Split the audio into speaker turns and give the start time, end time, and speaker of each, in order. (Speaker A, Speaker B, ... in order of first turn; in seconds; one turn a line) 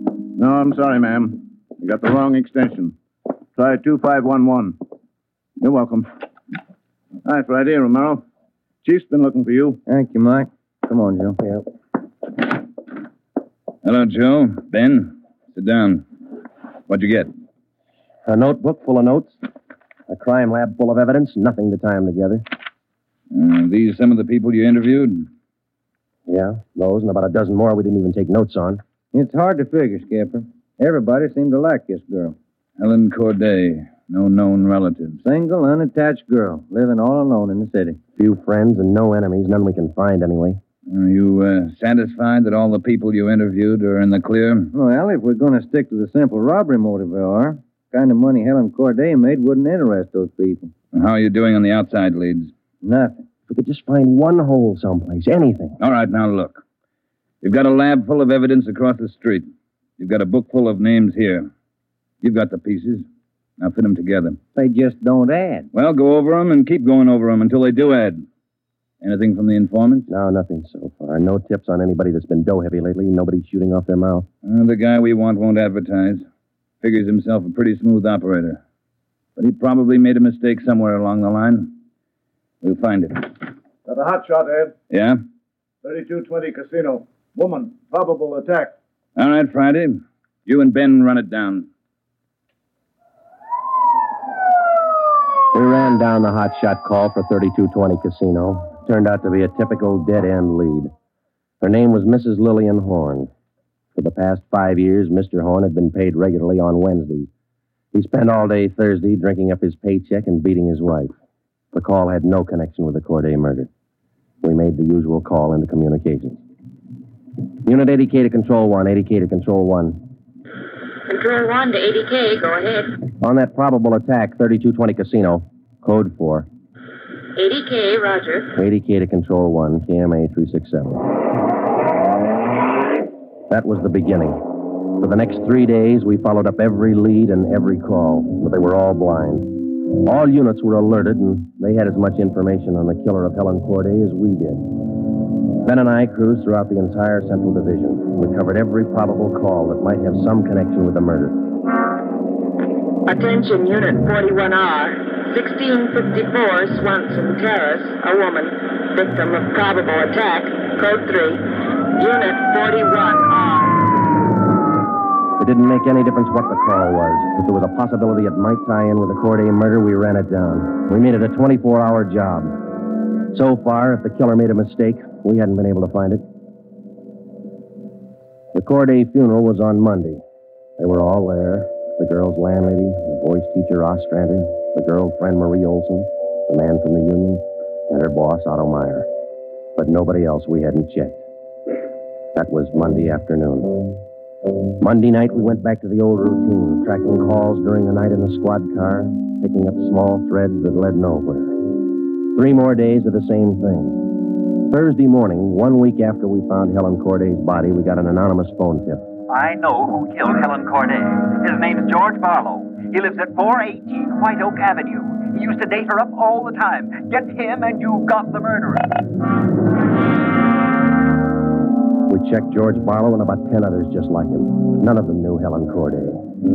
Speaker A: 0.3-2.9
Speaker A: 3.5-4.8
Speaker A: 5.6-6.1
Speaker A: 7.2-8.2
Speaker A: 8.8-9.8
Speaker B: 9.9-11.4
Speaker C: 13.8-16.1
Speaker C: 16.9-17.3
Speaker D: 18.2-19.4
Speaker D: 20.1-22.4
Speaker C: 23.3-25.3
Speaker D: 26.3-28.8
Speaker B: 29.1-32.4
Speaker C: 32.8-35.2
Speaker B: 35.2-38.0
Speaker D: 38.2-40.6
Speaker C: 40.9-44.7
Speaker B: 44.7-50.7
Speaker C: 50.9-52.5
Speaker B: 52.8-53.2
Speaker D: 53.5-55.8
Speaker C: 55.8-56.6
Speaker C: 57.4-61.5
Speaker C: 62.2-63.0
Speaker C: 63.6-64.4
Speaker B: 64.5-65.7
Speaker C: 65.7-68.2
Speaker C: 69.0-70.1
Speaker D: 70.1-74.3
Speaker C: 74.4-76.2
Speaker C: 76.8-78.6
Speaker C: 79.4-81.7
Speaker C: 82.6-83.4
Speaker A: 83.8-84.8
Speaker C: 84.9-85.2
Speaker A: 85.8-88.7
Speaker C: 89.2-91.7
Speaker D: 95.5-100.9
Speaker D: 101.6-103.3
Speaker D: 103.9-107.3
Speaker D: 107.9-111.1
Speaker D: 111.7-113.7
Speaker D: 114.4-116.4
Speaker D: 117.6-120.0
Speaker E: 121.1-123.0
Speaker D: 123.2-126.5
Speaker E: 127.3-128.5
Speaker D: 128.6-131.0
Speaker D: 133.5-134.4
Speaker D: 135.0-144.8
Speaker D: 145.6-151.4
Speaker E: 153.1-161.4
Speaker E: 162.0-163.8
Speaker D: 165.4-172.6
Speaker D: 173.3-176.2
Speaker D: 178.5-180.2
Speaker D: 180.8-189.1
Speaker D: 189.8-191.2
Speaker D: 192.3-194.0
Speaker D: 194.8-201.7
Speaker D: 202.3-204.0
Speaker D: 204.7-209.0
Speaker F: 209.3-218.8
Speaker D: 222.1-226.2